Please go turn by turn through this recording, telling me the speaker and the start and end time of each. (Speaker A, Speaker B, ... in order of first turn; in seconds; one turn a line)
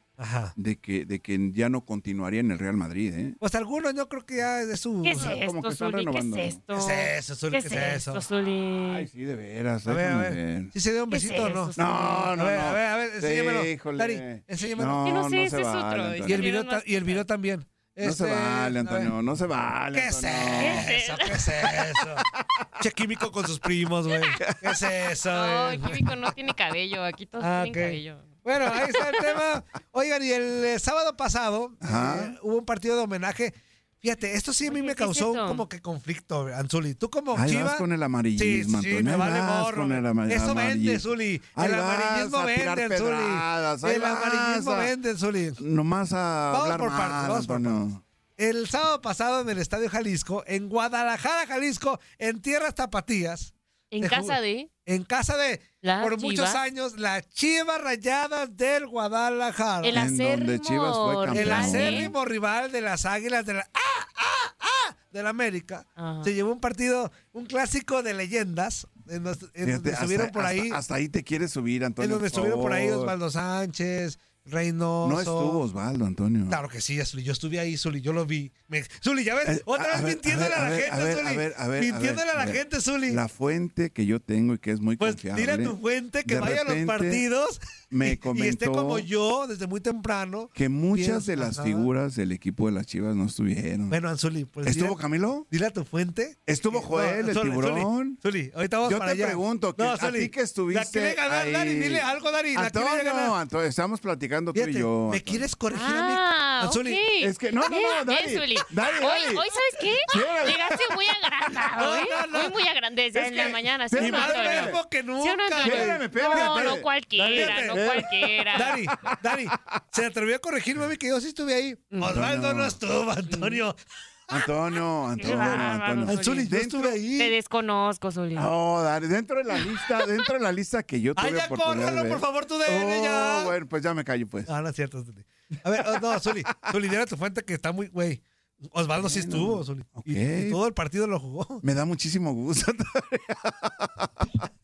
Speaker A: 0.2-0.5
Speaker B: 0.6-3.4
Speaker A: 3.4-5.4
Speaker C: 5.0-9.1
Speaker B: 5.2-6.6
Speaker A: 6.7-8.2
Speaker B: 8.8-10.7
Speaker A: 9.9-11.8
Speaker C: 11.1-12.3
Speaker B: 11.8-16.5
Speaker A: 12.3-15.0
Speaker C: 15.0-17.2
Speaker A: 16.2-19.1
Speaker B: 18.0-20.9
Speaker A: 19.9-22.2
Speaker C: 20.6-21.6
Speaker A: 22.8-26.0
Speaker B: 24.4-24.9
Speaker C: 25.3-28.3
Speaker A: 27.4-37.8
Speaker B: 31.8-32.4
Speaker C: 34.7-35.6
Speaker B: 37.3-44.9
Speaker A: 38.4-45.6
Speaker B: 45.6-48.0
Speaker A: 46.5-47.8
Speaker A: 48.4-60.0
Speaker C: 53.9-54.7
Speaker C: 55.8-56.6
Speaker C: 59.8-62.1
Speaker B: 59.9-62.1
Speaker A: 61.3-70.8
Speaker C: 66.0-66.3
Speaker B: 69.6-73.1
Speaker A: 72.0-75.6
Speaker B: 75.0-76.6
Speaker A: 76.5-83.2
Speaker B: 79.4-87.2
Speaker A: 85.0-91.9
Speaker B: 87.9-89.0
Speaker B: 90.5-94.0
Speaker A: 93.9-95.0
Speaker B: 94.6-95.5
Speaker A: 95.5-103.3
Speaker B: 96.5-98.2
Speaker B: 98.8-105.5
Speaker A: 104.5-107.0
Speaker C: 105.7-118.8
Speaker B: 107.2-109.5
Speaker B: 110.1-110.8
Speaker A: 111.8-112.6
Speaker A: 113.2-118.0
Speaker B: 113.2-114.8
Speaker B: 115.6-119.8
Speaker A: 118.5-123.8
Speaker C: 121.9-122.2
Speaker B: 122.0-122.8
Speaker C: 123.3-123.6
Speaker B: 124.3-127.0
Speaker C: 125.2-126.5
Speaker A: 125.2-127.3
Speaker C: 127.2-128.5
Speaker B: 128.3-134.5
Speaker A: 131.2-133.5
Speaker A: 134.5-141.6
Speaker B: 136.2-136.7
Speaker B: 139.0-140.6
Speaker B: 141.6-144.4